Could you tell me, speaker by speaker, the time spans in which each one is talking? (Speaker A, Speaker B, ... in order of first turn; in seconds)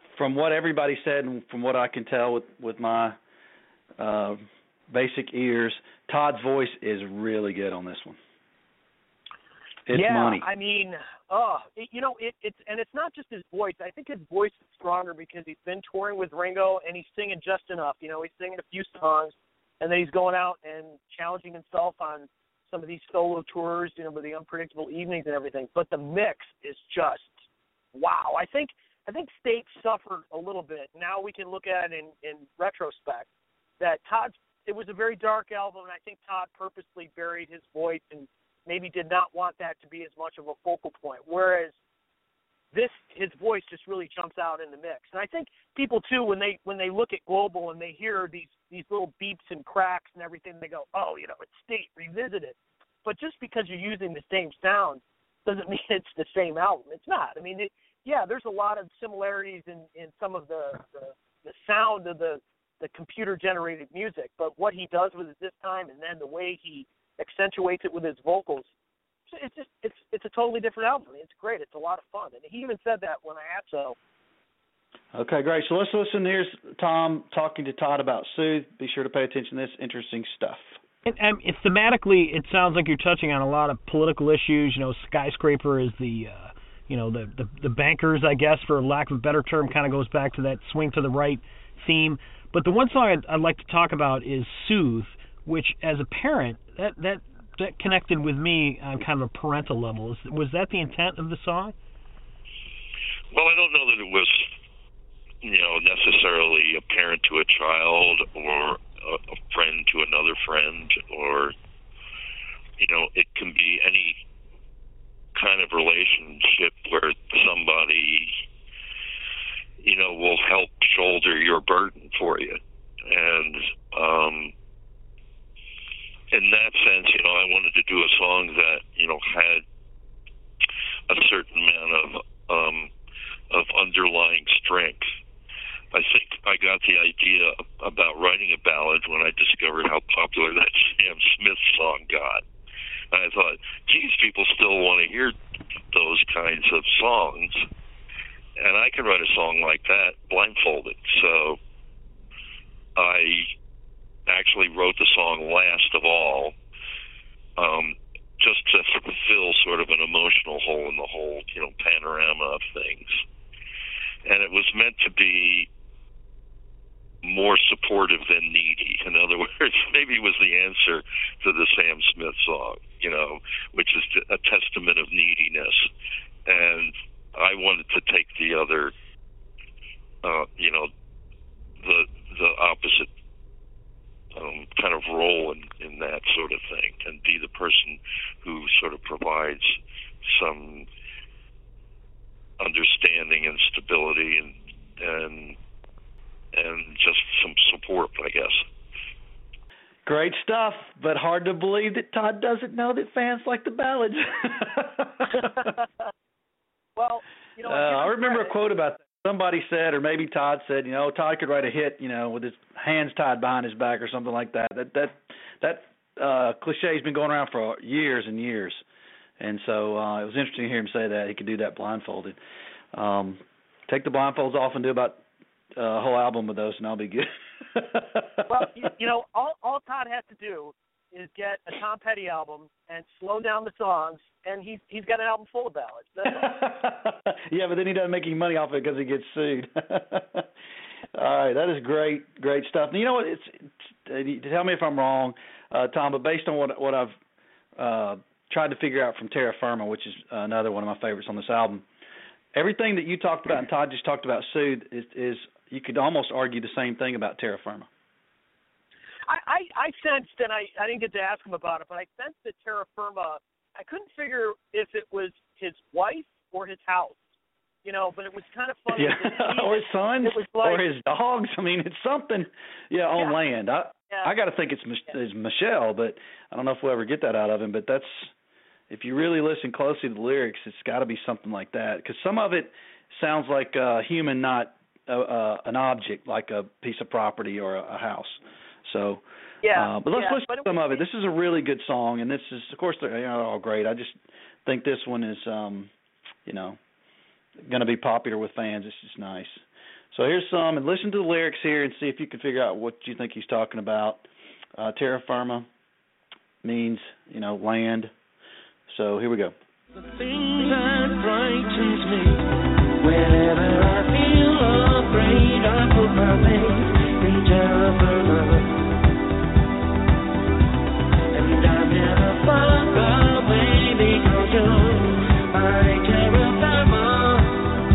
Speaker A: 0.1-3.2, 4.0-8.2, 9.9-10.5, 75.1-80.8, 200.1-205.7, 207.6-218.8, 219.4-222.4, 222.9-225.2, 225.8-228.6, 236.2-240.5, 241.1-247.1, 247.8-251.8, 252.5-257.9, 268.9-278.3, 278.9-295.9, 296.4-296.8, 297.6-305.7, 306.6-308.1, 308.9-309.5
Speaker B: 9.9-33.3, 33.8-41.8, 42.7-68.7, 69.3-74.0, 205.4-205.9, 206.9-208.6, 228.5-236.4, 259.3-267.3, 267.8-270.8, 289.6-291.0
Speaker C: 81.0-101.7
Speaker D: 103.3-104.5, 105.4-111.5, 112.8-114.2, 115.3-118.3, 119.8-124.5, 126.3-129.6, 131.1-132.9, 133.5-135.1, 135.9-142.4, 143.1-145.3, 145.9-147.6, 148.6-151.6, 152.9-153.5, 154.3-156.5, 157.6-163.2, 164.2-165.7, 167.2-175.8, 176.4-178.9, 180.2-180.9, 181.8-183.1, 184.3-190.9, 192.6-195.6, 196.5-198.6
Speaker E: 310.0-312.5, 313.0-318.8, 321.3-327.7